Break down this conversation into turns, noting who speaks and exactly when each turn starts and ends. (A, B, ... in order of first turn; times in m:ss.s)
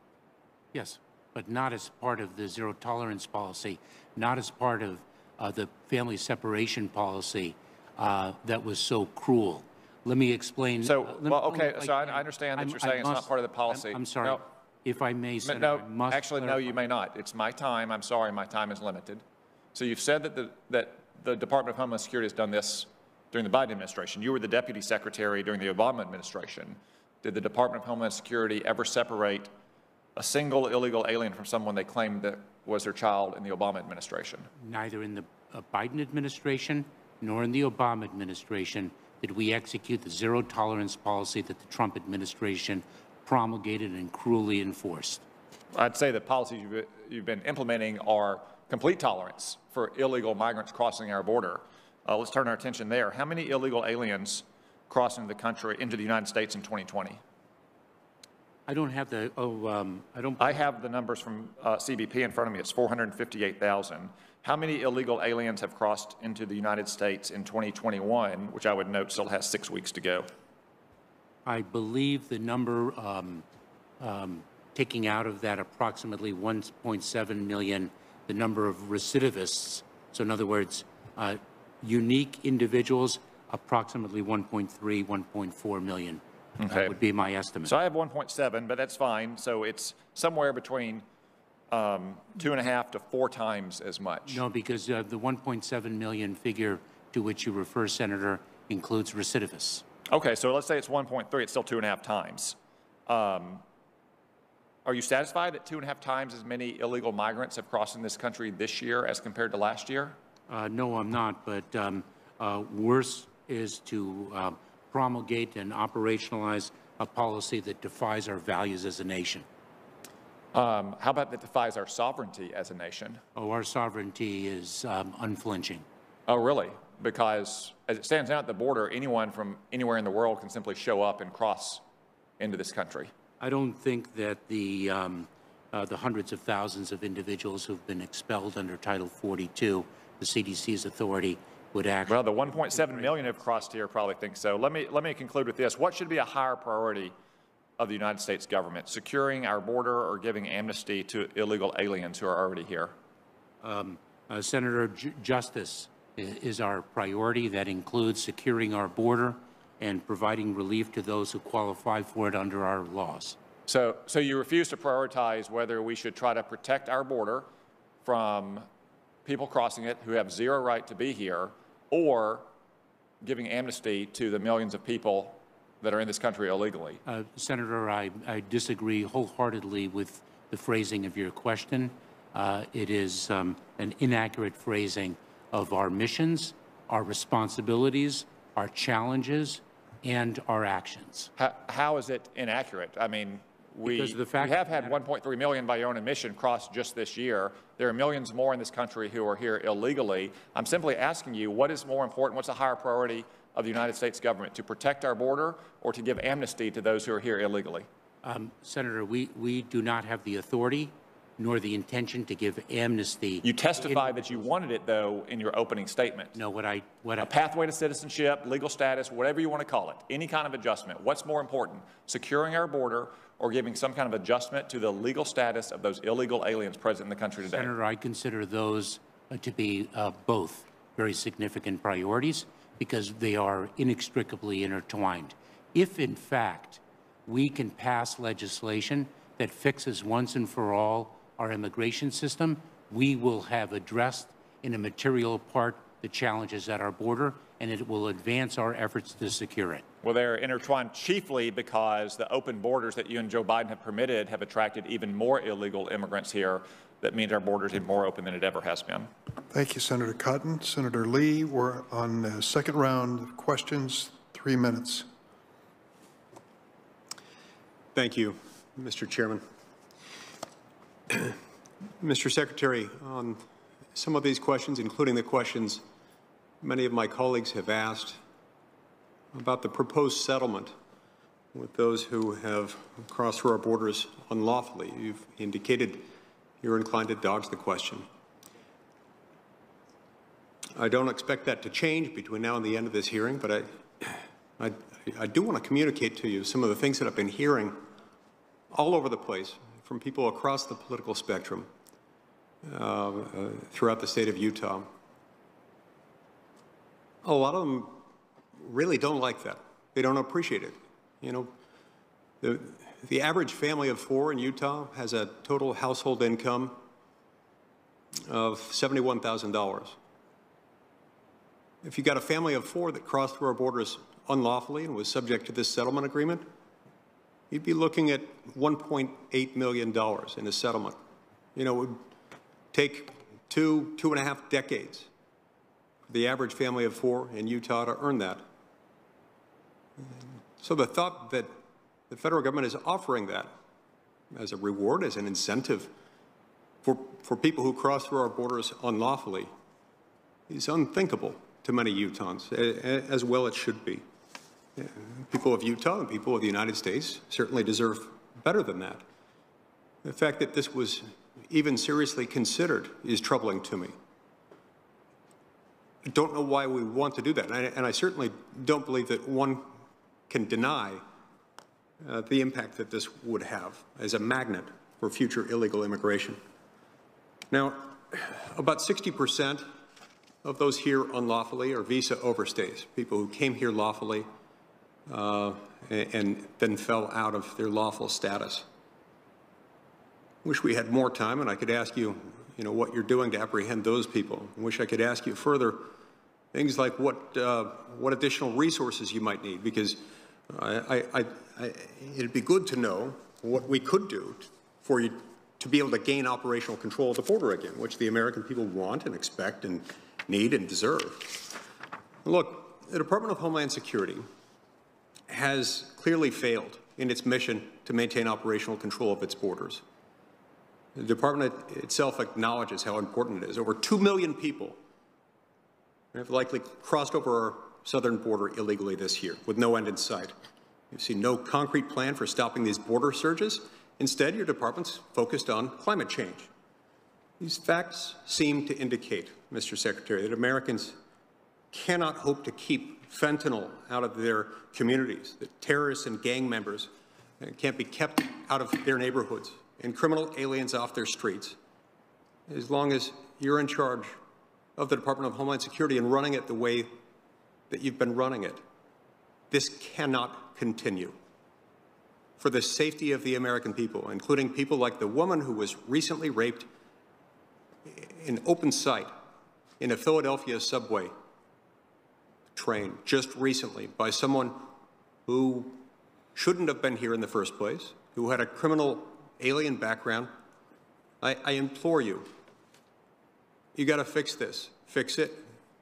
0:00.7-0:16.8 A
0:10.8-0:14.4 B
0:15.4-0:19.2 B
0:19.7-0:29.5 B
0:30.2-0:34.5 B
0:34.6-0:45.2 A
0:45.7-0:57.2 B
0:58.7-1:00.7 A
1:00.4-1:10.3 B
1:11.4-1:13.4 A
1:14.0-1:27.7 A
1:26.6-1:27.0 B
1:27.7-1:31.0 B
1:31.7-1:34.4 B
1:34.3-1:39.8 A
1:40.1-1:42.6 B
1:43.1-1:43.6 B
1:44.8-1:50.2 B
1:50.5-1:59.5 A
2:00.5-2:03.2 B
2:03.4-2:05.8 A
2:06.3-2:11.8 B
2:12.4-2:13.1 B
2:13.4-2:23.4 A
2:22.1-2:27.1 B
2:27.8-2:32.9 B
2:33.6-2:43.4 A
2:43.7-2:47.5 B
2:48.0-2:48.7 B
2:49.3-2:52.5 B
2:53.2-2:57.0 B
2:57.1-3:11.3 A
3:11.4-3:27.9 B
3:13.8-3:15.0 A
3:28.2-3:34.4 A
3:33.4-3:36.3 B
3:36.3-3:37.3 A
3:37.2-3:47.7 B
3:47.4-4:09.8 A
4:10.0-4:19.1 B
4:19.5-4:25.1 C
4:28.0-4:29.4 D
4:31.1-4:31.4 D
4:32.0-4:33.4 D
4:34.0-4:35.8 D
4:36.6-4:38.2 D
4:39.3-4:40.7 D
4:41.5-4:46.0 D
4:46.6-4:48.0 D
4:50.8-4:57.8 D
4:58.7-5:01.7 D
5:02.6-5:04.9 D
5:07.2-5:08.0 D
5:08.6-5:11.5 D
5:12.4-5:16.8 D
5:18.3-5:20.0 D
5:21.8-5:26.4 D
5:27.5-5:31.0 D
5:31.6-5:32.0 D
5:32.7-5:35.1 D
5:36.1-5:38.4 D
5:40.0-5:41.5 D
5:42.1-5:43.5 D
5:44.3-5:45.9 D
5:46.8-5:49.5 D
5:50.5-5:54.0 D
5:54.8-5:59.0 D
6:00.0-6:03.9 D
6:06.1-6:09.7 D
6:10.3-6:11.0 D
6:12.0-6:16.4 D
6:17.5-6:19.6 D
6:20.4-6:24.3 D
6:25.1-6:28.7 D
6:30.4-6:35.9 D
6:36.5-6:51.6 D
6:52.2-6:54.2 D
6:55.3-6:59.8 D
7:01.0-7:04.8 D
7:06.1-7:10.3 D
7:10.9-7:16.5 D
7:17.4-7:21.0 D
7:21.7-7:31.6 D
7:32.5-7:34.1 D
7:34.8-7:36.9 D
7:37.7-7:38.6 D
7:39.5-7:41.2 D
7:42.4-7:46.7 D
7:47.9-7:49.1 D
7:49.8-7:51.1 D
7:52.6-7:54.7 D
7:55.3-7:55.8 D
7:56.4-8:00.3 D
8:01.2-8:02.3 D
8:03.8-8:05.4 D